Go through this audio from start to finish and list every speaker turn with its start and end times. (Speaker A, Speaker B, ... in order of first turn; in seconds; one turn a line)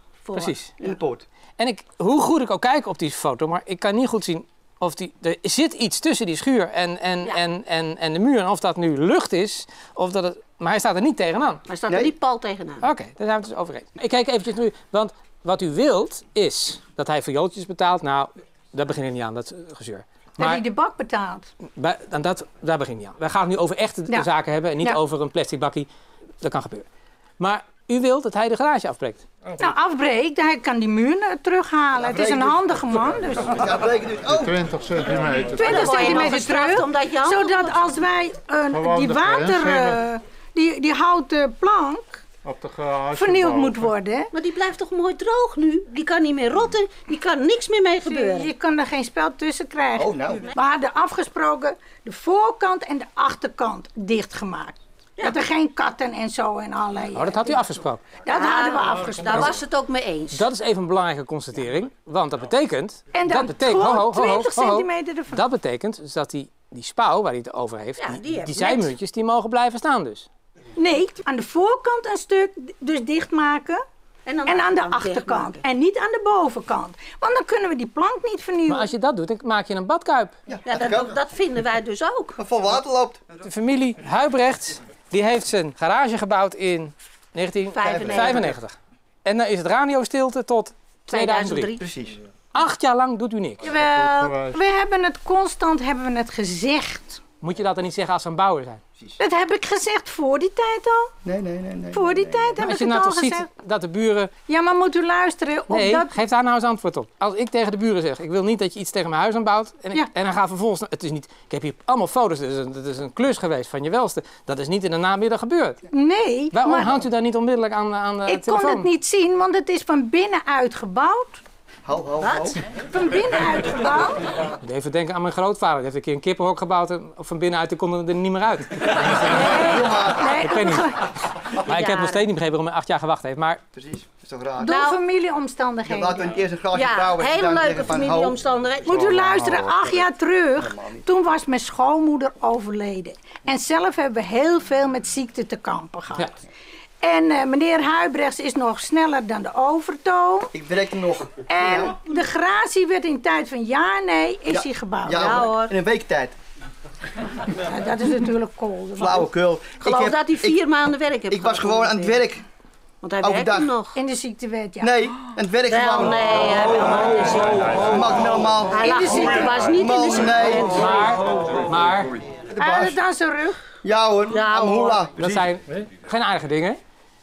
Speaker A: 0.2-0.9
Speaker B: 0.3-0.7
Speaker C: 0.8-1.2
Speaker B: 1.6-11.6
Speaker A: 11.7-12.8
Speaker C: 11.9-12.1
Speaker B: 12.8-20.6
Speaker D: 20.4-21.5
Speaker B: 21.8-25.9
Speaker B: 26.4-26.9
Speaker B: 27.4-29.2
Speaker D: 29.6-33.5
Speaker C: 32.0-32.6
Speaker C: 33.4-34.6
Speaker E: 34.3-36.0
Speaker D: 35.5-42.2
Speaker A: 35.5-37.7
Speaker E: 38.7-40.0
Speaker E: 42.4-43.9
Speaker D: 43.1-44.3
Speaker A: 44.3-48.5
Speaker D: 48.0-57.6
Speaker C: 50.0-50.5
Speaker B: 57.1-58.1
Speaker D: 58.2-59.5
Speaker A: 58.3-60.4
Speaker B: 59.3-59.6
Speaker B: 60.3-70.3
Speaker D: 63.1-65.4
Speaker A: 68.0-68.9
Speaker D: 70.8-73.8
Speaker A: 74.2-75.6
Speaker D: 74.4-78.9
Speaker B: 78.7-80.3
Speaker C: 80.5-81.2
Speaker A: 80.7-82.4
Speaker C: 82.4-83.2
Speaker B: 83.4-91.7
Speaker A: 87.7-88.5
Speaker C: 87.8-88.6
Speaker A: 91.1-91.8
Speaker C: 91.8-92.2
Speaker B: 92.5-93.6
Speaker D: 93.6-97.2
Speaker E: 93.7-94.6
Speaker B: 97.4-98.8
Speaker D: 99.2-101.1
Speaker C: 101.2-102.6
Speaker D: 101.9-103.5
Speaker B: 102.6-104.3
Speaker D: 104.5-106.1
Speaker B: 105.7-115.8
Speaker D: 115.9-117.0
Speaker B: 116.5-118.9
Speaker D: 118.2-121.4
Speaker C: 121.8-122.6
Speaker A: 122.2-122.6
Speaker D: 122.9-124.2
Speaker B: 124.5-129.6
Speaker D: 129.3-131.0
Speaker C: 129.5-130.6
Speaker B: 130.3-133.6
Speaker A: 131.7-132.2
Speaker C: 133.8-134.8
Speaker D: 134.6-136.2
Speaker A: 134.7-135.0
Speaker C: 135.8-138.4
Speaker A: 136.8-138.9
Speaker D: 138.8-146.3
Speaker E: 138.9-140.0
Speaker C: 140.6-141.0
Speaker D: 147.0-150.5
Speaker C: 150.5-152.0
Speaker D: 151.5-155.4
Speaker C: 154.5-156.3
Speaker A: 155.2-155.8
Speaker D: 157.5-159.3
Speaker C: 159.0-160.6
Speaker A: 159.8-162.2
Speaker C: 161.3-162.4
Speaker A: 163.0-164.0
Speaker C: 163.2-163.7
Speaker D: 163.9-165.2
Speaker C: 164.8-170.9
Speaker A: 165.7-168.0
Speaker A: 168.7-171.0
Speaker D: 168.8-169.6
Speaker B: 170.6-172.2
Speaker C: 172.5-173.0
Speaker D: 172.6-173.6
Speaker C: 173.8-175.5
Speaker A: 174.3-175.0
Speaker B: 175.1-176.8